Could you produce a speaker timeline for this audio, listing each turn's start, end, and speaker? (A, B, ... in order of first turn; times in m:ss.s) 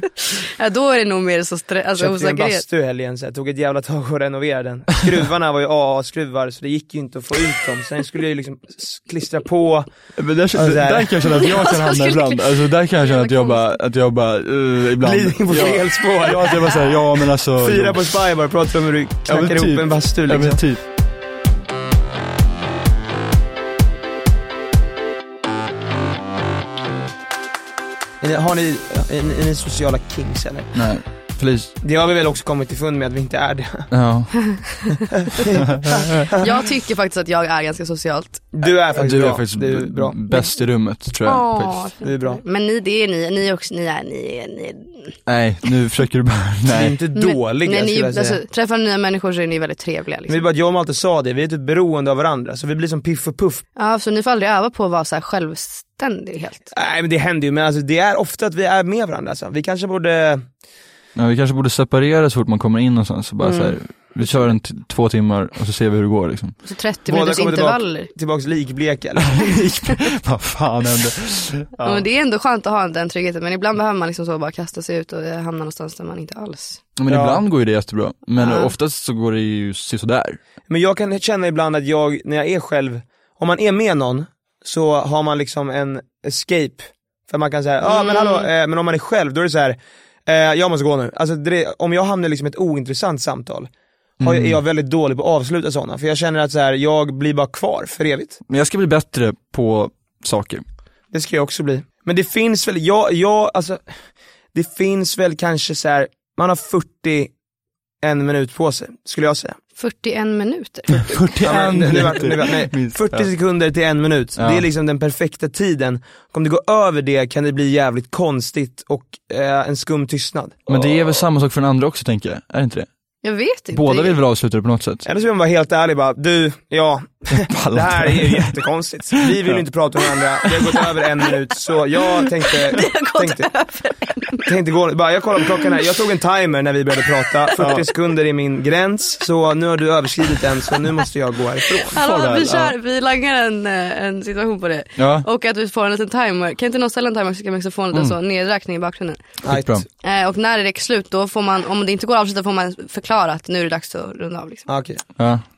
0:00.2-0:02.6 A
0:02.0-0:09.9 B
0:10.2-0:18.1 C
0:10.5-0:11.1 B
0:11.3-0:13.8 A
0:15.0-0:16.8 B
0:17.6-0:20.6 B
0:19.3-0:20.8 C
0:28.2-0:30.8 B
0:30.7-0:31.8 C
0:31.8-0:33.9 B
0:33.9-0:34.7 C
0:35.2-0:36.4 B
0:36.4-0:38.4 A
0:38.5-0:40.2 B
0:38.9-0:41.9 C
0:41.2-0:45.2 A
0:42.0-0:42.4 B
0:45.3-0:47.0 C
0:46.7-0:48.4 B
0:47.1-0:50.4 A
0:50.3-0:53.6 B
0:53.8-0:56.7 A
0:56.7-1:00.4 B
1:01.2-1:06.6 C
1:03.4-1:04.6 A
1:06.6-1:08.1 A
1:07.1-1:09.5 B
1:09.3-1:11.8 C
1:11.8-1:16.8 A
1:17.0-1:20.4 C
1:17.1-1:17.4 B
1:18.4-1:18.7 A
1:20.7-1:33.7 B
1:27.8-1:28.5 A
1:34.2-1:34.6 C
1:34.2-1:38.4 B
1:38.5-1:40.6 C
1:41.1-1:43.9 B
1:44.5-1:47.3 B
1:48.0-1:49.6 B
1:49.8-1:51.1 A
1:51.0-1:53.3 C
1:51.4-2:01.2 B
1:54.4-1:54.6 C
2:00.7-2:02.9 C
2:03.2-2:04.2 A
2:03.7-2:05.0 C
2:05.0-2:13.5 B
2:07.4-2:08.5 C
2:12.5-2:14.5 A
2:14.4-2:22.0 B
2:17.6-2:17.8 C
2:21.8-2:29.2 A
2:21.9-2:22.7 C
2:25.0-2:25.2 C
2:29.4-2:29.8 C
2:29.4-2:29.8 B
2:30.0-2:34.7 A
2:34.7-2:35.0 B
2:35.2-2:35.4 C